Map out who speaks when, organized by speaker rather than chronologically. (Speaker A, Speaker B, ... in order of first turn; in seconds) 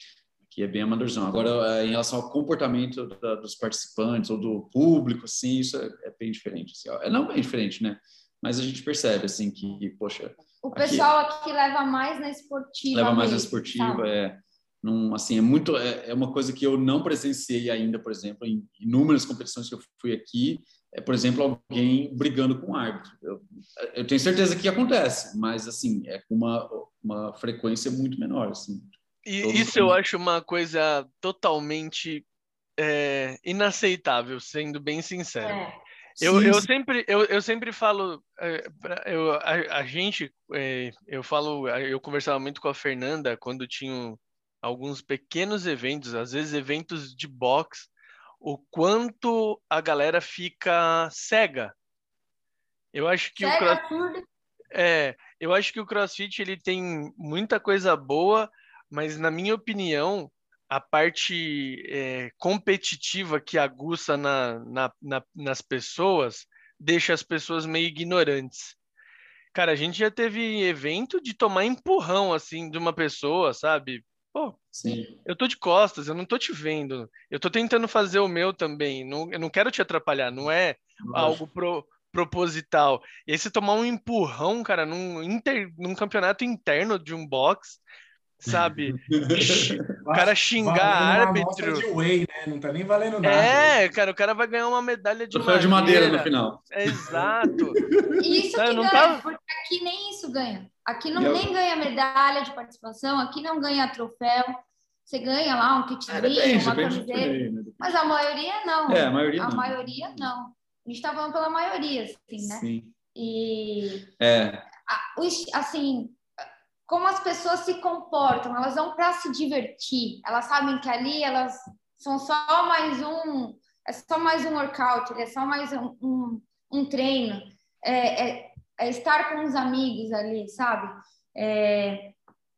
Speaker A: 0.5-11.1, 12.9-30.0, 36.2-36.7, 74.7-75.1, 81.0-81.4, 88.5-89.9, 95.3-98.2, 101.1-101.5, 106.1-108.0, 108.9-110.3, 112.4-112.9, 114.2-114.7
Speaker B: 10.6-14.1, 35.4-35.8, 53.4-54.2, 98.2-104.5, 105.0-114.1, 114.8-116.2, 116.8-132.2
Speaker C: 29.2-32.3, 32.8-35.6, 36.2-47.9, 48.4-51.7, 52.9-53.8, 54.7-68.8, 69.5-74.6, 75.2-87.8, 88.4-89.0, 90.1-91.9, 93.2-97.8, 98.6-99.2
Speaker D: 90.0-93.7